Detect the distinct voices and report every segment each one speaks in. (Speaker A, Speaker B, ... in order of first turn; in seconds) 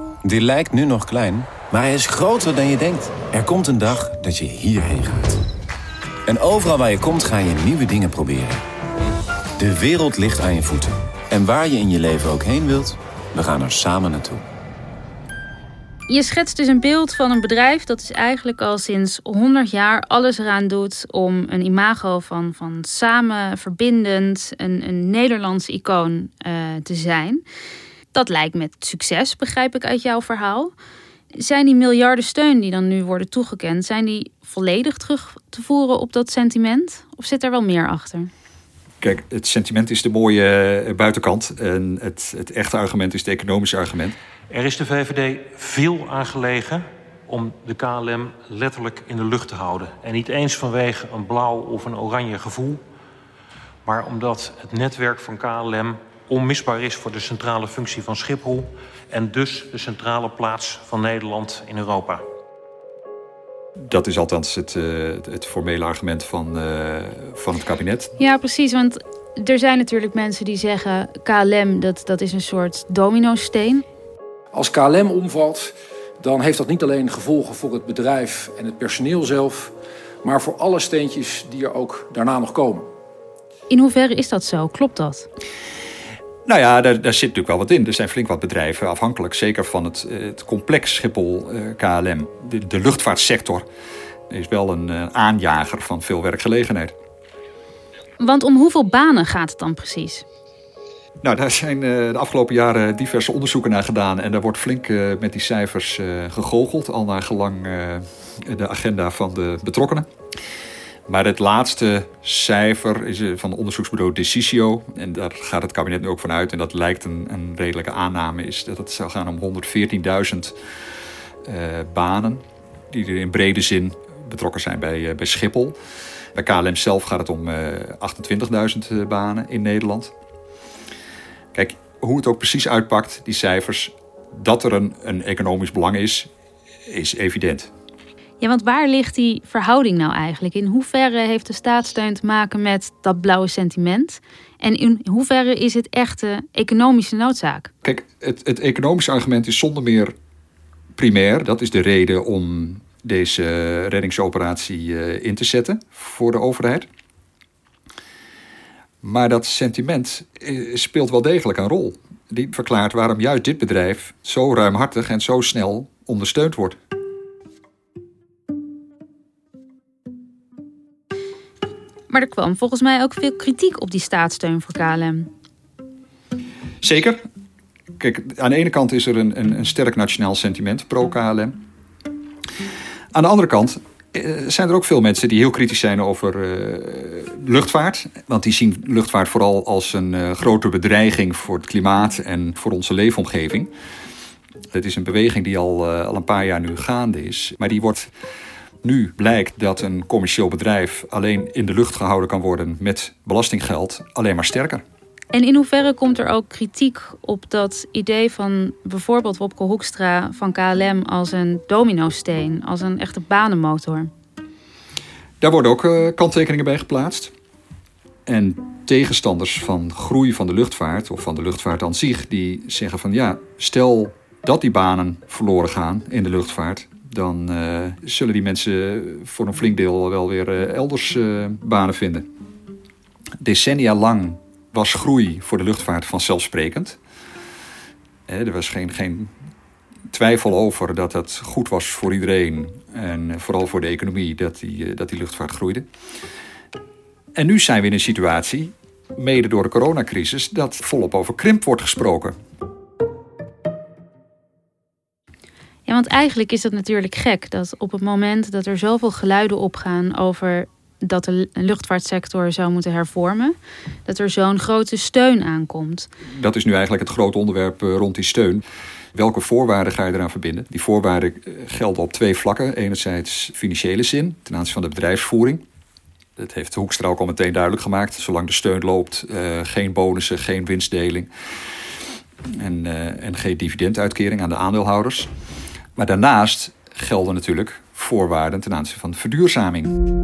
Speaker A: 0.2-5.4, 6.3-8.6, 9.6-14.4
Speaker B: 16.1-27.4, 28.1-30.7, 31.3-38.3, 68.2-73.8, 83.7-85.3, 98.2-100.2, 138.4-147.7, 172.1-175.3, 205.3-214.1, 255.9-266.1
Speaker C: 39.0-44.1, 63.9-68.1, 86.5-93.7, 94.3-96.9, 101.2-110.1, 111.1-120.5, 121.5-125.8, 126.3-130.1, 131.5-136.3, 136.9-137.7, 147.8-150.1, 151.0-156.9, 159.0-166.8, 176.8-177.2, 178.0-181.5, 183.1-193.7, 194.7-198.1, 198.8-204.8, 215.4-217.3, 218.3-232.3, 233.4-237.0, 238.3-239.3, 240.1-245.9, 247.4-252.3, 266.4-268.6, 269.1-275.6, 276.4-281.3, 282.6-285.3, 286.0-289.9
Speaker D: 44.5-52.8, 53.9-62.2
Speaker E: 74.5-82.9